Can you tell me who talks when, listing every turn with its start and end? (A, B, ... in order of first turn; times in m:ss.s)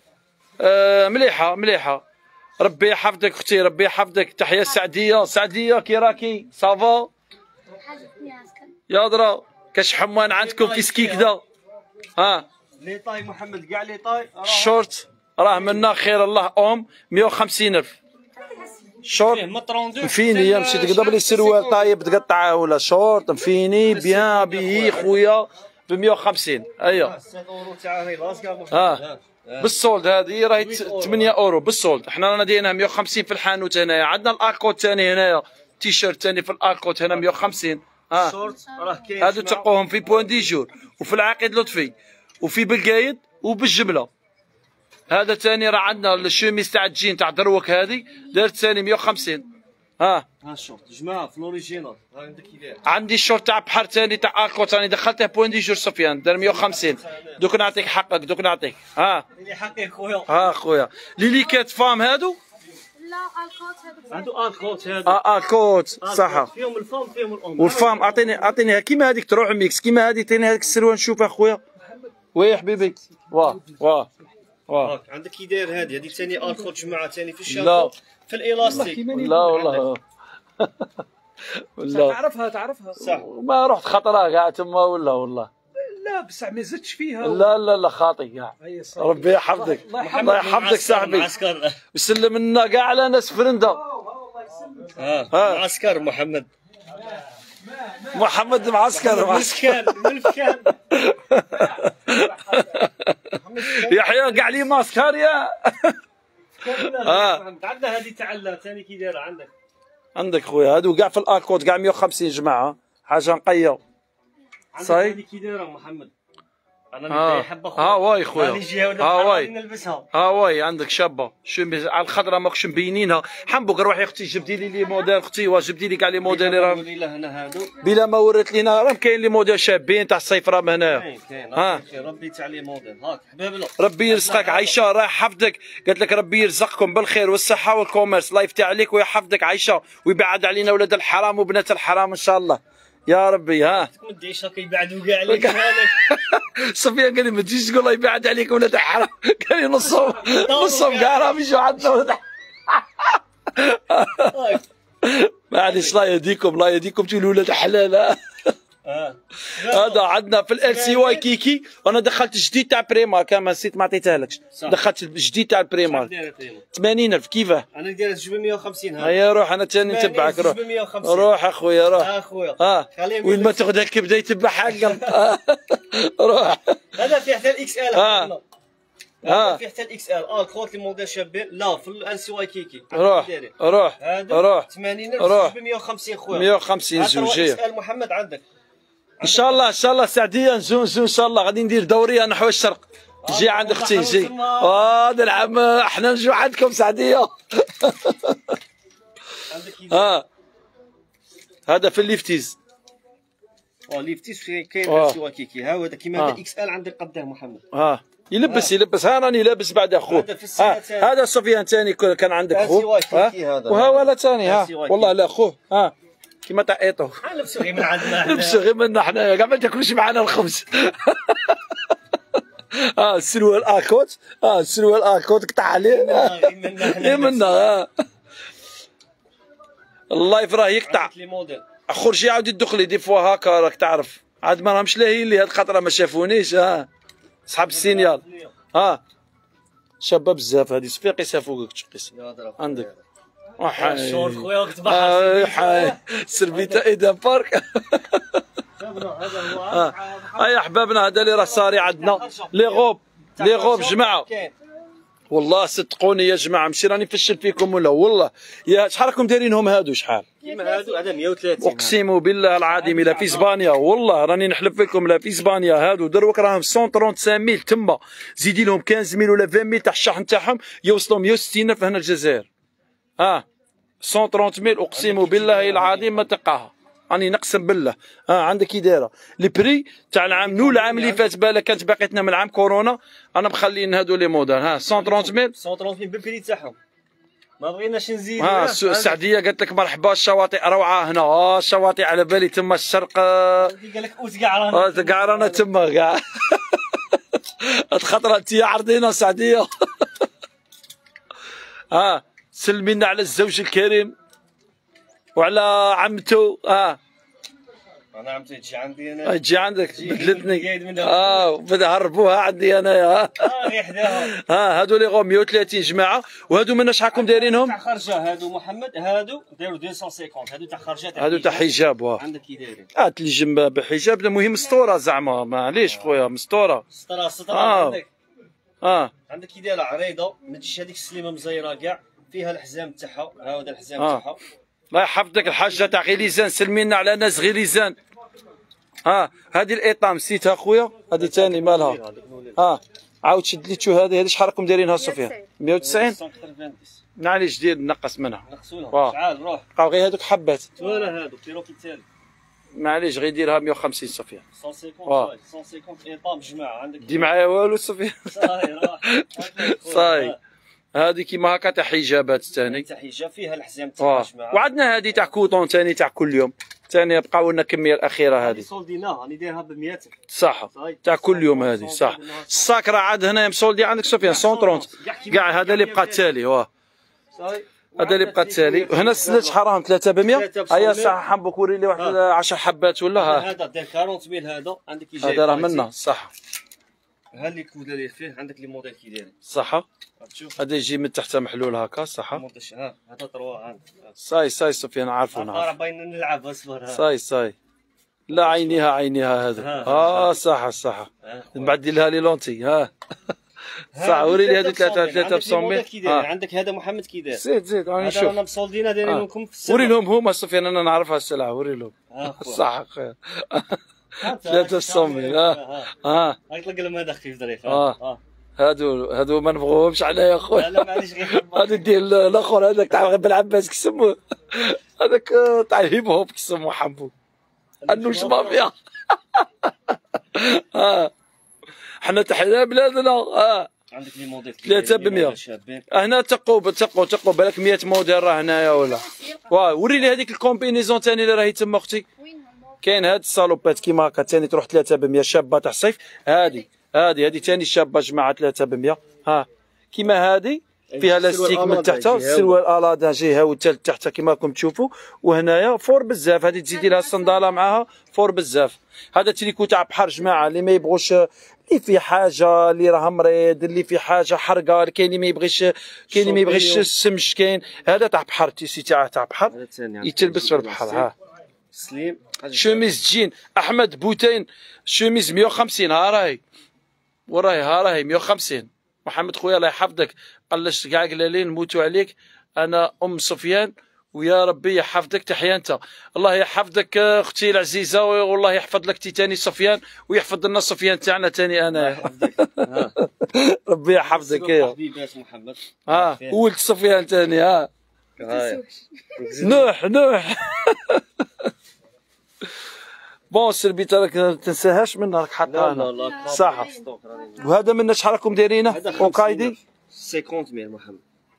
0:00.6-0:02.0 A
0:02.6-0:07.1 A
0:07.8-0:08.7 B
0:08.9-0:11.4 A
0:10.2-0:11.3 C
0:12.2-0:12.5 A
0:12.8-0:14.9 C
0:14.4-0:18.0 A
0:15.4-0:15.8 C
0:19.0-0:19.4 A
0:19.2-0:21.9 C
0:20.0-0:27.1 A
0:23.8-0:25.2 C
0:26.8-0:29.8 C
0:28.7-0:29.0 A
0:29.6-0:38.4 A
0:30.5-0:31.4 C
0:38.1-0:39.7 C
0:39.2-0:44.1 A
0:45.1-0:49.5 A
0:50.0-0:50.2 A
0:50.4-0:52.8 C
0:52.8-0:59.2 A
0:56.4-0:57.4 C
0:59.4-1:00.5 C
1:00.3-1:02.4 A
1:03.0-1:04.5 B
1:04.1-1:05.2 C
1:05.0-1:06.5 A
1:06.0-1:08.4 C
1:07.6-1:11.6 A
1:12.3-1:14.1 A
1:14.7-1:15.0 A
1:14.8-1:19.8 C
1:17.5-1:17.9 A
1:18.6-1:20.0 A
1:18.7-1:19.7 D
1:20.6-1:22.2 A
1:21.9-1:23.0 D
1:23.0-1:23.2 C
1:23.0-1:25.5 A
1:25.8-1:27.5 D
1:27.2-1:31.3 A
1:28.6-1:30.6 D
1:30.0-1:31.8 C
1:31.9-1:33.8 A
1:34.2-1:35.0 D
1:34.9-1:36.5 C
1:35.3-1:35.6 A
1:37.0-1:38.7 D
1:38.1-1:40.2 A
1:38.9-1:40.8 C
1:40.9-1:46.0 A
1:42.1-1:42.7 D
1:43.3-1:44.7 C
1:46.6-1:49.5 C
1:46.7-1:47.4 A
1:50.1-1:53.8 A
1:54.7-1:56.1 C
1:54.8-1:55.2 A
1:56.9-2:00.1 C
1:57.1-1:59.5 A
2:00.1-2:06.8 A
2:06.2-2:07.7 C
2:07.8-2:11.8 A
2:10.8-2:14.8 C
2:13.8-2:23.9 A
2:23.6-2:26.0 C
2:25.3-2:34.5 A
2:30.2-2:31.4 C
2:34.3-2:34.6 C
2:35.0-2:38.5 A
2:35.6-2:36.0 C
2:38.8-2:40.1 C
2:39.5-2:46.1 A
2:40.6-2:41.2 C
2:44.5-2:44.8 C
2:45.8-2:46.6 C
2:46.7-2:47.6 A
2:47.7-2:49.2 C
2:49.0-2:56.8 A
2:49.8-2:51.3 C
2:51.9-2:53.6 C
2:54.8-2:55.1 C
2:56.9-2:58.4 C
2:57.9-2:58.3 A
2:59.2-3:08.4 C
2:59.2-2:59.6 A
3:02.9-3:04.7 A
3:05.2-3:05.5 A
3:06.3-3:07.6 A
3:09.2-3:18.6 A
3:09.2-3:09.6 C
3:13.2-3:14.9 C
3:19.5-3:20.1 C
3:19.9-3:20.2 A
3:21.7-3:22.6 A
3:23.9-3:27.6 C
3:24.8-3:25.2 A
3:27.7-3:35.9 A
3:28.4-3:28.7 C
3:30.1-3:31.1 C
3:32.5-3:35.2 C
3:36.4-3:41.9 A
3:37.2-3:38.6 C
3:42.7-3:47.9 A
3:45.8-3:47.7 C
3:50.1-3:51.1 A
3:50.8-3:51.6 C
3:51.9-3:56.9 A
3:57.5-3:58.2 A
3:57.6-3:58.5 C
3:58.7-3:59.0 A
4:00.0-4:02.9 A
4:02.1-4:03.0 C
4:03.6-4:08.4 A
4:03.8-4:06.8 C
4:08.8-4:14.5 C
4:09.4-4:14.3 A
4:15.3-4:20.3 A
4:20.4-4:22.0 C
4:20.4-4:21.1 B
4:21.6-4:32.5 A
4:22.7-4:23.5 C
4:33.2-4:33.4 A
4:34.0-4:45.5 A
4:34.9-4:36.2 C
4:40.2-4:41.2 C
4:44.9-4:46.8 C
4:47.6-4:49.2 C
4:48.4-4:53.7 A
4:53.6-4:55.6 C
4:54.7-5:00.2 A
5:01.9-5:04.1 A
5:05.4-5:07.0 A
5:08.1-5:11.5 C
5:09.2-5:17.8 A
5:13.4-5:14.3 C
5:17.1-5:22.9 C
5:21.2-5:22.2 A
5:22.9-5:26.8 A
5:26.9-5:28.1 C
5:27.5-5:28.0 A
5:28.8-5:29.1 A
5:29.3-5:34.4 C
5:34.0-5:34.2 A
5:34.9-5:38.0 A
5:39.0-5:42.0 A
5:41.1-5:42.6 C
5:42.6-5:46.2 A
5:45.0-5:45.4 B
5:45.8-5:47.0 C
5:47.2-5:49.2 A
5:48.4-5:49.7 C
5:49.8-5:50.7 A
5:50.8-5:52.0 C
5:52.7-5:54.4 A
5:54.5-5:57.3 C
5:57.0-6:00.3 A
5:58.3-6:00.4 C
6:00.9-6:02.8 A
6:02.6-6:04.7 C
6:04.0-6:08.6 A
6:08.4-6:10.1 C
6:10.3-6:16.7 A
6:10.7-6:12.7 C
6:14.2-6:16.3 C
6:17.3-6:19.6 C
6:18.0-6:23.5 A
6:20.2-6:21.2 C
6:23.2-6:25.9 C
6:25.2-6:26.3 A
6:27.3-6:29.3 C
6:29.4-6:29.8 A
6:30.2-6:30.6 C
6:30.6-6:32.4 A
6:32.3-6:34.1 C
6:34.2-6:35.7 A
6:35.3-6:37.0 C
6:36.9-6:37.5 A
6:38.3-6:43.3 A
6:38.3-6:38.8 C
6:39.6-6:40.4 C
6:41.2-6:41.8 C
6:43.9-6:47.4 C
6:43.9-6:46.3 A
6:47.4-6:48.4 A
6:48.0-6:50.0 C
6:49.0-6:56.4 A
6:52.1-6:52.6 C
6:54.2-6:55.9 C
6:56.5-6:58.2 C
6:57.6-6:58.0 A
6:58.6-7:07.1 A
7:00.5-7:01.9 C
7:07.8-7:08.7 C
7:07.9-7:11.1 A
7:12.0-7:13.7 A
7:13.9-7:15.9 C
7:14.6-7:15.4 A
7:15.9-7:22.0 A
7:18.7-7:19.5 B
7:22.2-7:22.7 B
7:22.8-7:51.1 A
7:30.9-7:32.6 C
7:46.1-7:46.9 C
7:49.5-7:51.1 C
7:51.7-7:52.9 C
7:52.5-7:56.4 A
7:57.3-8:14.7 A
8:11.7-8:13.0 C
8:14.0-8:16.4 C
8:15.9-8:17.7 A
8:18.2-8:18.6 C
8:18.2-8:19.1 B
8:19.1-8:19.7 C
8:19.4-8:21.5 A
8:23.3-8:26.7 A
8:25.4-8:27.5 C
8:26.3-8:26.7 B
8:27.4-8:29.6 A
8:28.7-8:31.0 C